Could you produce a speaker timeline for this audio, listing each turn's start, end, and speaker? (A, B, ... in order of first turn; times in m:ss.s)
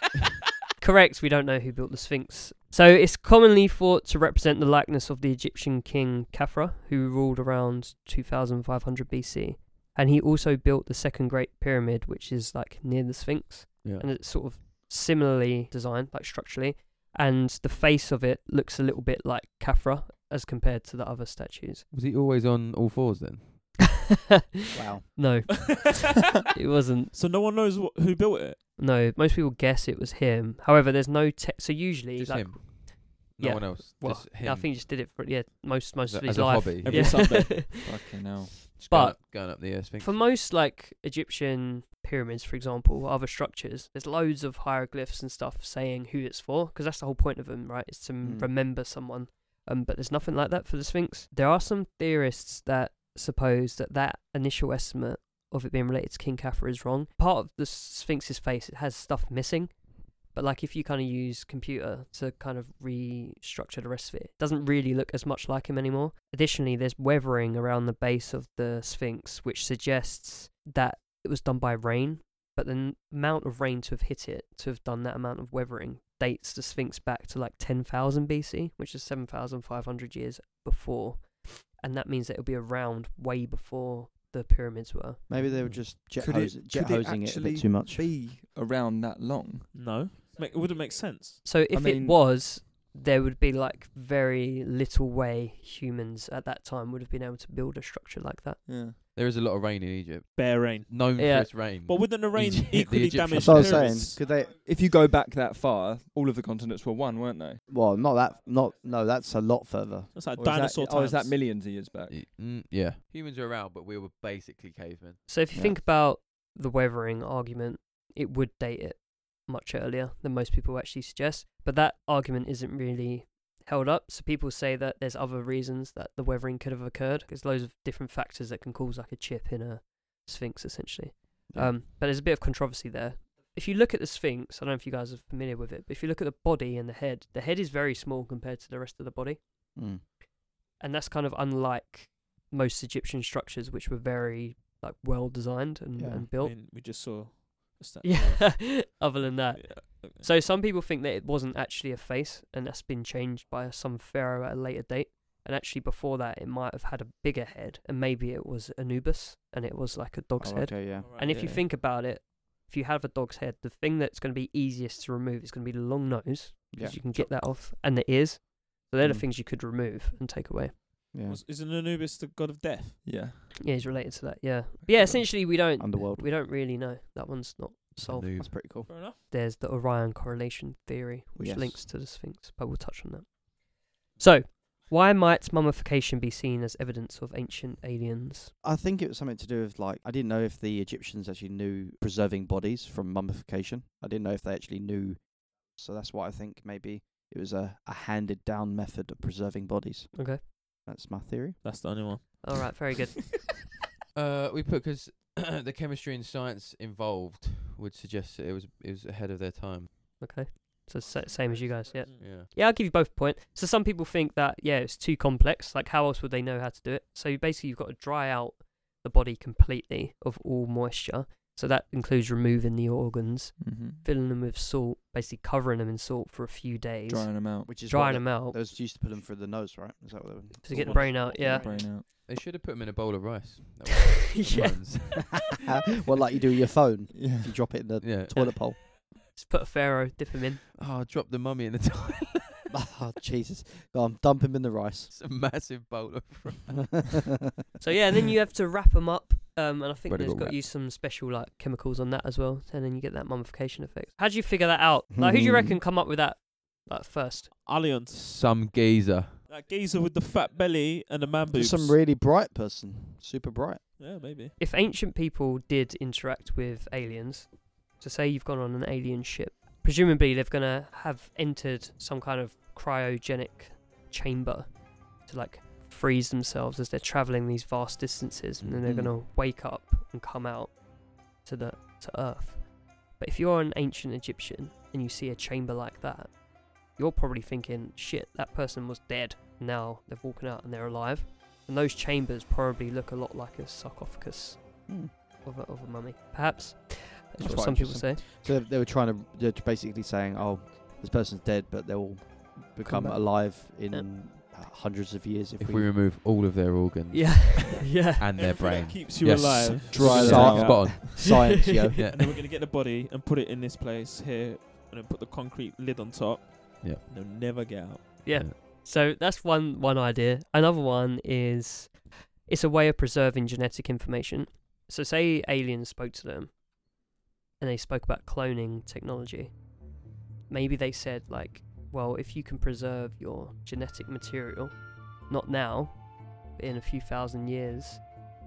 0:00.8-0:21.9 A
0:13.8-0:14.1 B
0:21.9-0:23.8 B
0:24.7-0:25.1 C
0:25.0-0:27.1 A
0:27.1-0:28.6 D
0:28.8-0:38.0 A
0:32.2-0:34.8 B
0:36.0-0:37.4 B
0:36.8-0:37.5 D
0:36.9-0:38.7 E
0:38.7-0:59.8 A
0:38.8-0:40.3 B
0:48.2-0:48.5 C
1:00.3-1:25.3 A
1:25.3-1:28.1 C
1:26.2-1:29.9 E
1:29.7-1:31.4 D
1:31.4-1:38.6 A
1:31.7-1:32.2 E
1:38.7-1:39.0 E
1:39.1-1:44.0 B
1:40.4-1:44.2 D
1:41.2-1:41.5 A
1:43.4-1:44.6 C
1:44.6-1:47.6 E
1:47.7-1:50.6 C
1:50.1-1:51.4 D
1:50.4-1:52.2 E
1:52.1-1:55.2 B
1:55.3-2:19.4 A
1:55.5-1:55.8 C
2:11.5-2:11.8 C
2:19.8-2:20.0 C
2:20.8-2:26.6 A
2:26.0-2:26.3 C
2:26.4-2:29.0 D
2:28.0-2:50.8 A
2:29.6-2:30.2 D
2:40.4-2:41.2 C
2:41.0-2:41.6 D
2:46.7-2:47.1 C
2:49.0-2:49.3 C
2:51.1-2:51.4 C
2:51.3-2:53.0 D
2:53.0-2:53.4 E
2:53.6-3:03.4 A
2:55.5-2:56.3 C
2:58.0-2:58.6 B
2:58.4-2:58.9 C
2:58.9-2:59.2 D
3:01.4-3:01.9 C
3:04.2-3:08.5 A
3:08.6-3:21.6 C
3:20.1-3:20.4 A
3:21.6-3:22.9 D
3:22.4-3:23.2 A
3:24.1-3:29.9 B
3:30.2-3:48.6 A
3:32.2-3:32.5 B
3:43.6-3:44.0 E
3:47.1-3:47.7 E
3:47.6-3:51.8 C
3:50.6-3:51.7 A
3:50.7-3:52.1 E
3:52.2-3:55.5 B
3:54.3-3:55.2 A
3:55.5-3:58.8 C
3:57.1-3:57.8 E
3:58.0-3:58.6 B
3:58.3-4:00.6 A
4:00.8-4:02.7 B
4:02.7-4:05.1 C
4:05.1-4:07.1 B
4:06.7-4:07.2 C
4:07.8-4:17.6 A
4:10.1-4:10.6 B
4:15.1-4:15.8 C
4:17.7-4:18.2 D
4:18.1-4:19.4 B
4:19.5-4:22.0 D
4:21.5-4:23.8 C
4:24.0-4:24.6 D
4:24.6-4:40.8 A
4:38.6-4:39.1 C
4:41.4-4:54.9 A
4:55.4-4:58.2 A
4:57.4-5:06.0 C
5:02.8-5:04.1 A
5:05.6-5:11.0 B
5:07.1-5:08.3 A
5:08.4-5:10.9 D
5:09.9-5:11.2 E
5:10.0-5:12.0 C
5:11.2-5:11.9 A
5:12.0-5:12.4 B
5:12.1-5:18.2 D
5:18.2-5:26.5 A
5:18.3-5:18.6 B
5:27.6-5:29.6 A
5:30.5-5:38.1 A